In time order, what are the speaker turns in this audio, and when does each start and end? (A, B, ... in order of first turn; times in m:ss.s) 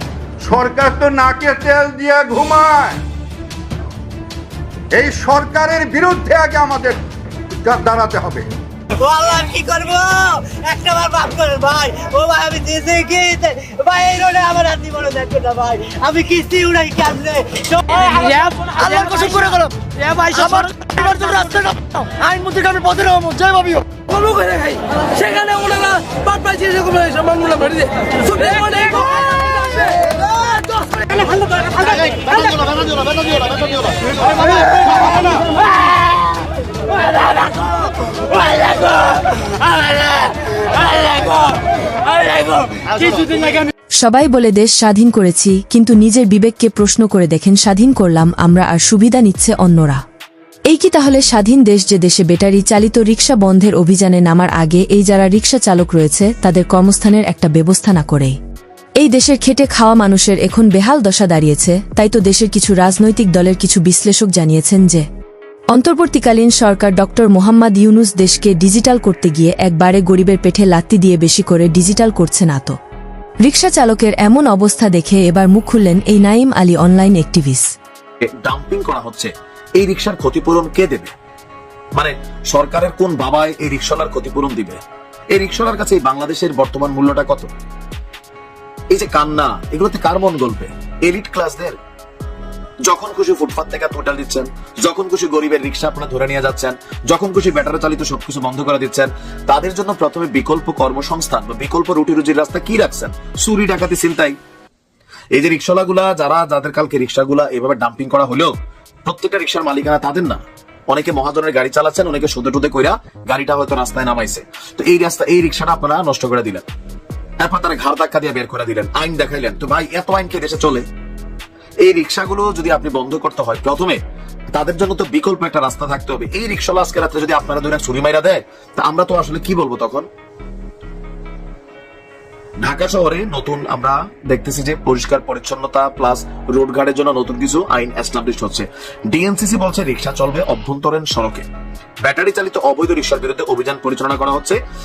0:00.4-0:03.0 A
0:04.9-0:07.0 A
0:07.6-0:08.5 A
0:08.9-0:23.8 B
0:19.9-0:20.4 C
0:24.0-0:29.0 C
0:28.8-0:29.5 B
0:29.8-0:30.0 C
0:31.6-0:32.8 B
0:38.5-0:40.3 B
0:40.9-0:41.4 B
0:42.4-0:43.3 B
0:44.0-0:50.0 D
0:50.7-0:58.4 D
0:59.0-1:05.1 D
1:05.7-1:12.8 D
1:13.4-1:17.7 D
1:18.4-1:21.1 E
1:22.0-1:24.8 E
1:25.3-1:27.5 E
1:28.9-1:31.8 E
1:32.9-1:44.4 E
1:45.4-1:48.5 E
1:49.0-1:56.6 E
1:57.4-2:00.9 E
2:01.8-2:04.0 E
2:04.5-2:10.1 E
2:12.6-2:21.5 E
2:22.0-2:24.6 E